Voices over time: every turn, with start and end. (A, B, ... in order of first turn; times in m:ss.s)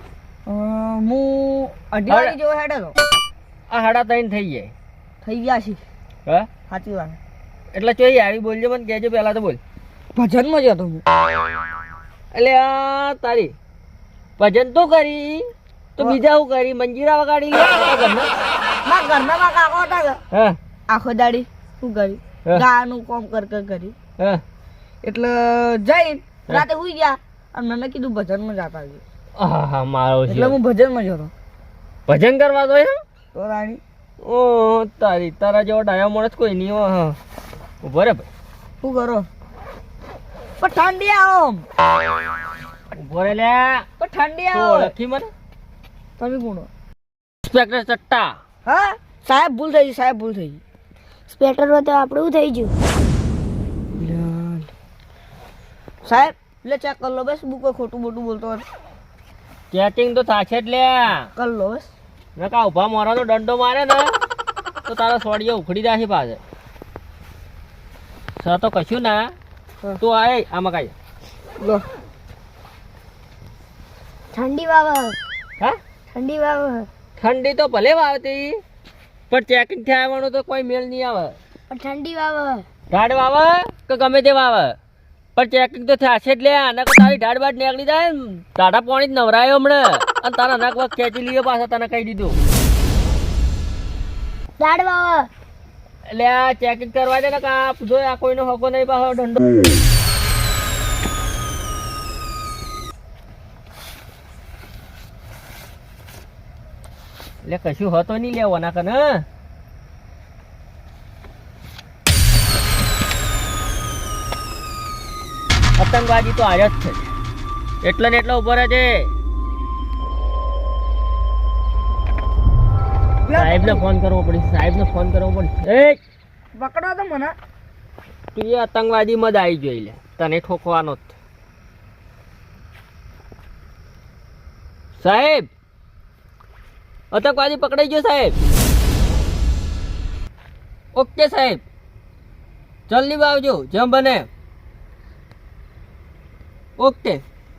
0:00.4-0:02.9 A
0:02.1-0:02.4 B
0:03.7-0:04.7 B
0:05.2-0:05.8 A
0:06.7-0:07.2 A
0:07.7-0:09.6 B
0:10.1-0:11.0 A
0:12.3-0:13.5 B
0:14.4-0:18.3 B
0:18.8-0:20.2 A
0:20.3-0:20.6 B
0:20.9-0:23.9 A
0:25.0-0:29.0 A
0:29.4-0:30.6 B
0:30.3-0:31.3 A
0:32.1-0:33.0 B
0:33.3-0:33.8 A
0:34.2-0:37.2 B
0:37.8-0:38.3 B
0:38.8-0:39.3 A
0:40.6-0:41.6 A
0:42.9-0:43.8 B
0:44.0-0:44.9 A
0:44.5-0:45.3 B
0:46.2-0:46.7 A
0:47.4-0:48.4 B
0:48.6-0:50.6 A
0:51.3-0:52.7 C
0:54.0-0:54.7 A
0:56.0-0:58.6 A
0:59.7-1:01.2 B
1:01.2-1:01.9 A
1:02.4-1:04.2 B
1:04.9-1:06.4 B
1:08.4-1:09.3 B
1:10.0-1:10.9 B
1:11.6-1:11.8 A
1:14.3-1:15.2 C
1:16.1-1:16.9 C
1:17.2-1:18.6 B
1:19.3-1:21.4 B
1:21.7-1:22.6 C
1:22.9-1:24.8 B
1:25.4-1:32.4 B
1:34.6-1:35.3 C
1:36.1-1:39.6 B
1:47.4-1:49.2 B
1:55.8-1:57.1 B
1:57.8-1:59.1 B
2:03.2-2:03.8 A
2:03.3-2:06.0 B
2:06.6-2:07.3 A
2:08.3-2:11.1 B
2:15.0-2:15.5 B
2:17.1-2:18.4 B
2:20.9-2:21.6 B
2:22.9-2:24.3 B
2:26.8-2:27.2 B